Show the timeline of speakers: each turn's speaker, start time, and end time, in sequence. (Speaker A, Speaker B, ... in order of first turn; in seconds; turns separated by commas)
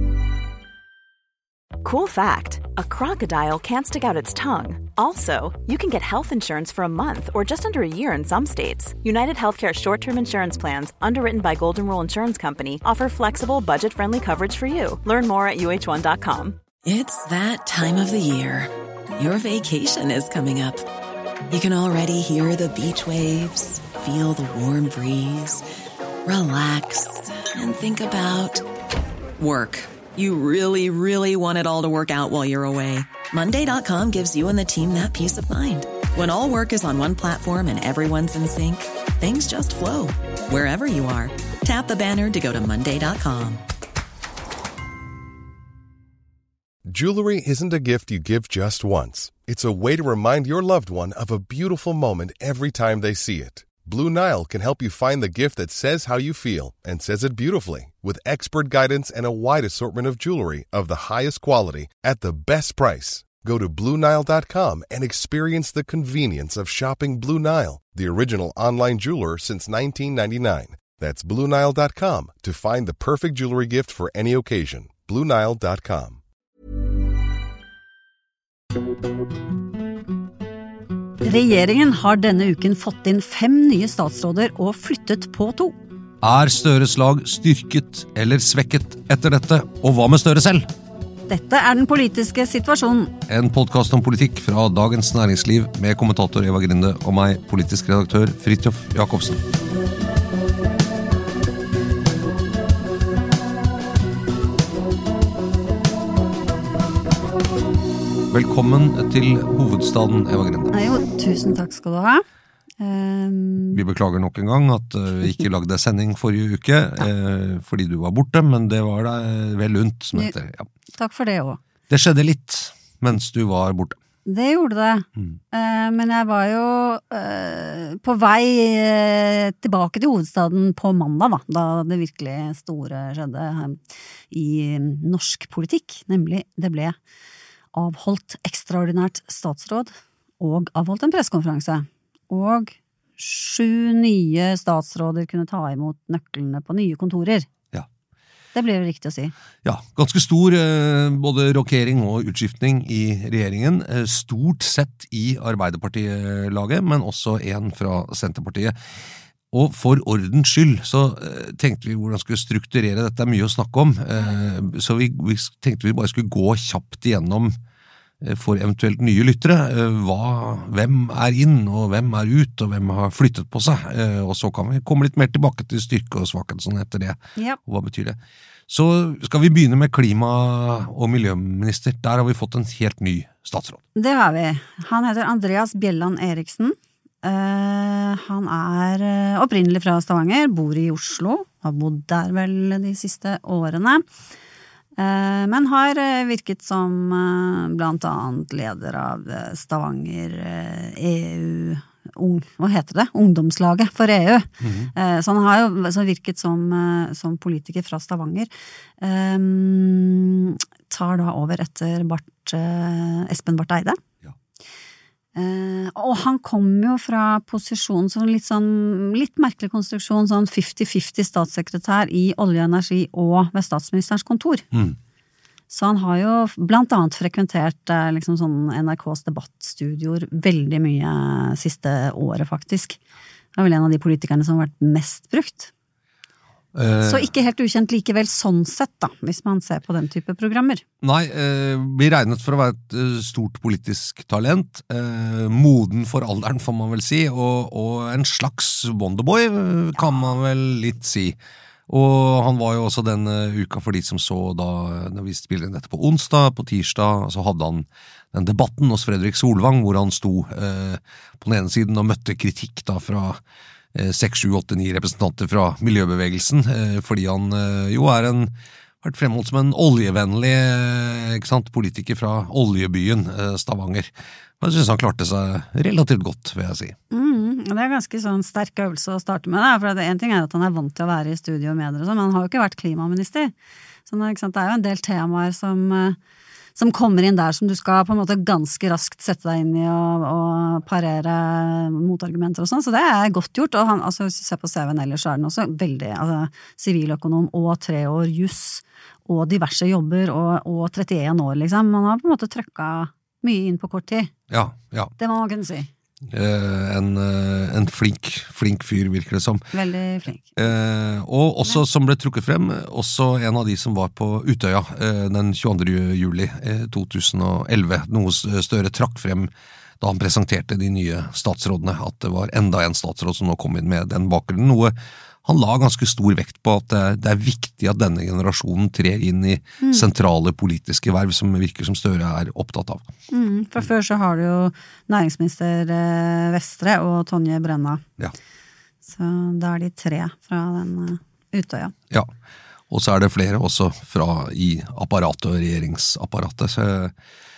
Speaker A: 1.8-16.6, Speaker B: 16.8-20.9, Speaker B: 21.5-25.6, Speaker B: 26.2-28.7, Speaker B: 29.4-43.6, Speaker C: 46.9-76.2, Speaker D: 81.2-85.8, Speaker E: 86.2-90.7, Speaker D: 91.3-93.1, Speaker E: 93.3-99.4, Speaker E: 108.3-110.7, Speaker D: 110.7-112.2, Speaker D: 112.8-113.8, Speaker E: 113.7-120.7, Speaker D: 121.0-121.6, Speaker E: 121.9-124.0, Speaker D: 124.3-133.8, Speaker D: 134.3-136.9, Speaker D: 137.7-147.5, Speaker D: 148.5-149.3, Speaker E: 149.6-158.8, Speaker E: 159.5-167.5, Speaker E: 168.2-183.8, Speaker D: 183.9-194.0, Speaker D: 195.0-214.0, Speaker E: 204.6-204.9, Speaker D: 215.3-224.7, Speaker E: 224.7-225.0, Speaker D: 225.7-233.0, Speaker D: 233.5-235.7, Speaker E: 236.7-237.3, Speaker D: 237.0-240.8, Speaker E: 241.0-251.4, Speaker E: 251.9-263.4, Speaker E: 263.9-277.0, Speaker D: 277.1-283.5, Speaker D: 284.1-286.2, Speaker D: 286.8-304.3, Speaker E: 304.5-305.1, Speaker D: 305.2-305.9, Speaker E: 306.3-309.6, Speaker D: 309.7-310.6, Speaker E: 310.6-333.1, Speaker D: 329.8-330.1, Speaker D: 333.3-338.0, Speaker D: 339.1-341.9, Speaker E: 342.9-347.1